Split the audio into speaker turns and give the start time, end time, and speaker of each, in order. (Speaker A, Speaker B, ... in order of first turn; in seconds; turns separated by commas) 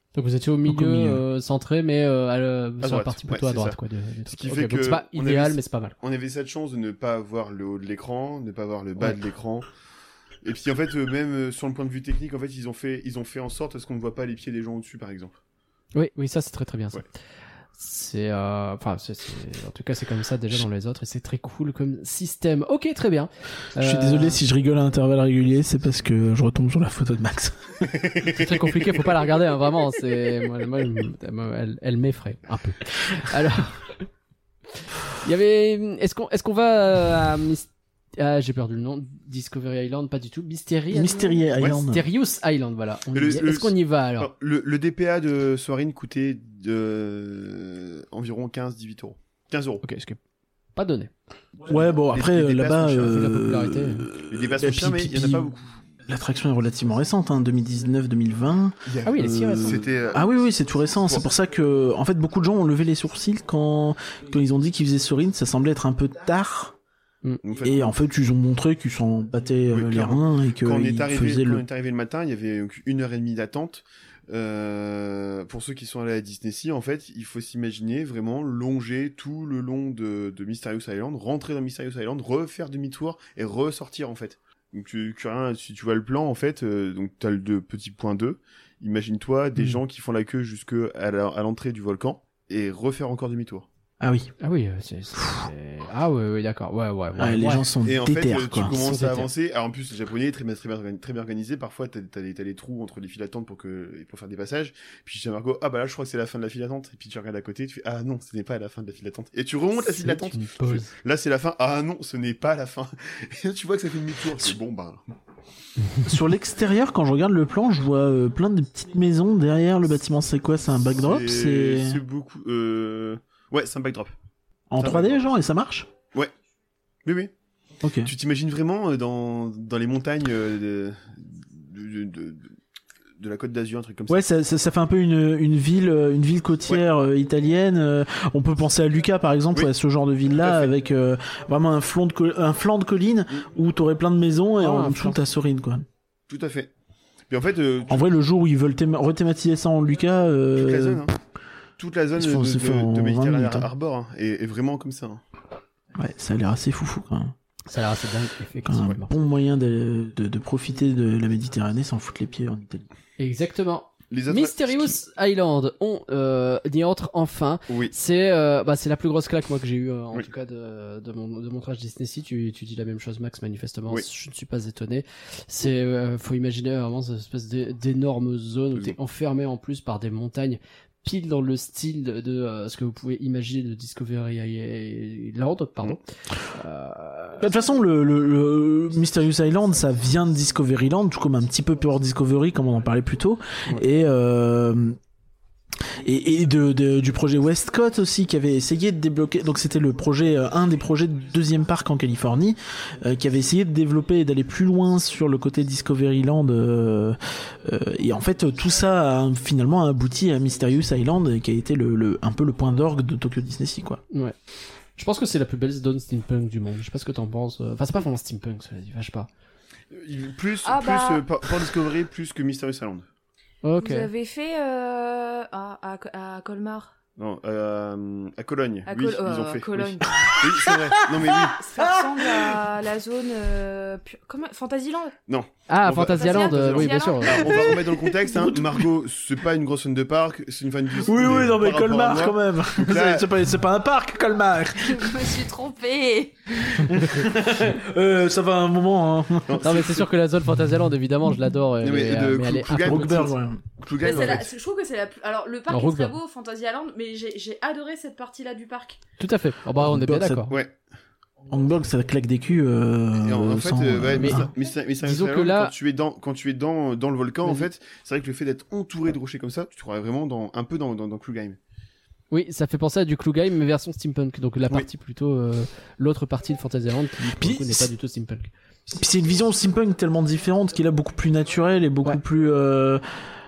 Speaker A: 0.1-6.0, Speaker B: 0.7-1.2, Speaker C: 2.8-9.7, Speaker C: 10.4-15.4, Speaker A: 15.9-17.0, Speaker A: 17.8-24.4, Speaker B: 23.8-27.9, Speaker C: 27.9-28.9, Speaker A: 28.3-34.1, Speaker A: 35.2-44.3, Speaker B: 40.9-42.0, Speaker C: 43.1-49.9, Speaker A: 49.8-50.2, Speaker A: 50.8-51.1, Speaker B: 51.7-55.5, Speaker C: 52.1-53.2, Speaker A: 53.1-54.1, Speaker C: 54.3-55.8, Speaker B: 56.1-66.8, Speaker C: 58.9-60.3, Speaker A: 59.0-59.8, Speaker C: 67.4-67.9, Speaker B: 67.6-71.6, Speaker C: 69.7-93.7, Speaker B: 94.0-94.3, Speaker A: 94.4-97.7, Speaker B: 95.2-95.5, Speaker B: 97.2-98.8, Speaker C: 97.8-115.0, Speaker A: 98.6-99.3, Speaker A: 109.8-110.9, Speaker B: 116.0-122.0, Speaker C: 121.0-124.1, Speaker B: 124.7-125.9, Speaker C: 124.8-125.2, Speaker C: 127.0-127.3, Speaker B: 127.8-128.1, Speaker C: 128.0-132.5, Speaker C: 133.2-134.2, Speaker B: 134.1-145.8, Speaker C: 140.4-140.7, Speaker A: 144.6-145.2, Speaker C: 146.3-146.7, Speaker C: 147.3-148.1, Speaker B: 147.9-151.1, Speaker C: 150.6-151.1, Speaker C: 151.8-155.2, Speaker B: 152.2-153.7, Speaker B: 156.0-157.3, Speaker A: 157.7-159.1, Speaker B: 158.7-162.9, Speaker A: 163.2-187.5, Speaker C: 164.1-165.0, Speaker C: 167.7-167.9, Speaker B: 187.4-195.0, Speaker B: 195.9-214.0, Speaker A: 215.0-219.3, Speaker C: 219.9-223.1, Speaker D: 220.6-221.3, Speaker A: 223.6-224.1, Speaker D: 223.8-226.9, Speaker C: 227.2-231.6, Speaker D: 228.8-230.4, Speaker B: 230.3-232.6, Speaker D: 231.4-235.2, Speaker C: 235.3-243.3, Speaker A: 235.7-237.6, Speaker D: 235.9-238.1, Speaker B: 238.3-238.8, Speaker B: 241.0-245.3, Speaker D: 244.8-246.8, Speaker B: 246.7-249.7, Speaker C: 249.5-250.1, Speaker A: 249.6-253.3, Speaker C: 251.8-254.5, Speaker B: 252.8-253.6, Speaker D: 254.0-259.0, Speaker A: 255.7-256.2, Speaker A: 259.2-260.5, Speaker B: 259.8-260.5, Speaker C: 260.5-260.8, Speaker B: 261.5-264.5, Speaker C: 263.2-271.6, Speaker A: 264.2-264.5, Speaker A: 265.0-265.7, Speaker A: 272.3-278.5, Speaker B: 277.3-277.9, Speaker B: 278.9-283.0